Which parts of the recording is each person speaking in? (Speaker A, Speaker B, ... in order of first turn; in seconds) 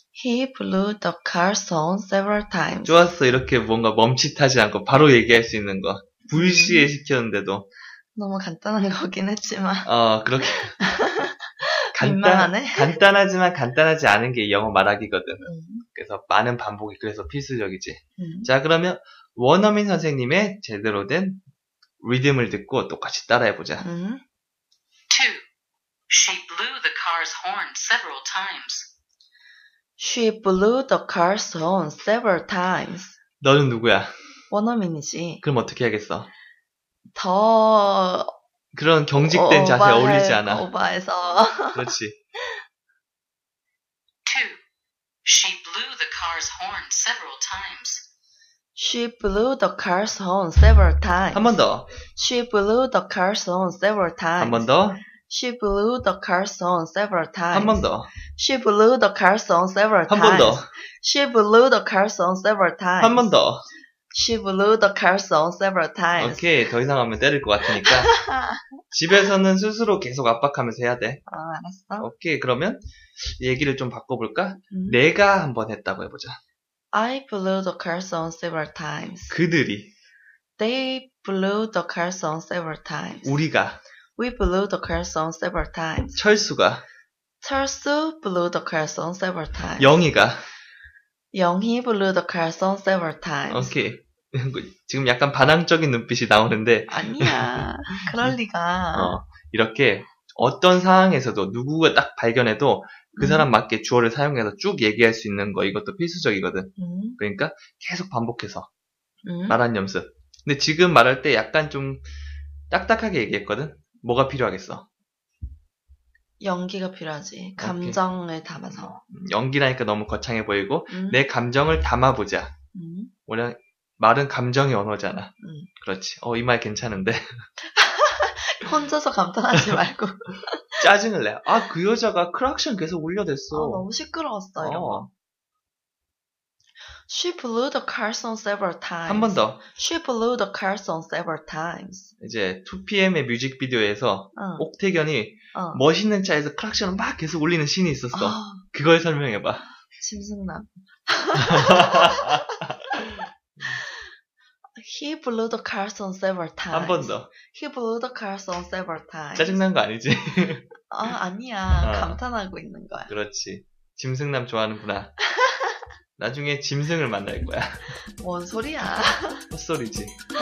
Speaker A: 0.1-3.1, 6.3-6.9, 8.2-9.9, 10.8-13.0, 15.4-15.8, 18.2-18.5, 23.8-24.2, 30.0-33.2, 34.5-35.4, 37.1-38.3, 39.2-41.9, 48.8-54.7, 55.3-63.3, 64.1-66.5, 67.8-68.6, 71.3-72.1, 74.7-75.0, 76.9-79.3, 80.6-83.4, 84.2-86.2, 87.4-90.0, 91.3-93.8, 96.9-99.2, 103.2-103.5, 106.8-107.2, 109.2-109.6, 116.4-119.0, 120.9-121.2, 122.7-123.1, 125.4-125.7, 127.7-130.9, 133.5-135.1, 137.1-142.1, 144.3-144.7, 145.5-145.8, 148.1-148.6, 149.9-152.4, 154.8-159.6, 160.9-163.1, 165.3-165.8, 168.2-169.5
Speaker B: 2.8-7.7, 9.8-10.8, 11.9-21.4, 22.0-23.8, 33.4-34.1, 35.4-36.3, 38.7-40.7, 41.7-42.2, 51.3-51.9, 54.4-55.0, 57.5-58.1, 60.1-60.7, 63.0-63.7, 66.2-68.1, 68.9-71.2, 72.0-76.4, 79.3-79.9, 83.2-83.8, 86.1-86.8, 89.8-90.5, 93.5-98.3, 98.9-108.7, 109.5-112.0, 112.7-114.9, 117.6-118.0, 118.7-122.5, 123.3-127.5, 130.8-133.8, 134.6-135.1, 139.1-139.7, 142.2-149.7, 151.4-153.8, 156.7-157.3, 159.3-160.8, 161.8-162.2, 163.1-165.1, 166.2-168.0, 169.5-170.2
Speaker C: 25.1-25.4, 26.1-28.9, 44.2-44.6, 45.2-48.0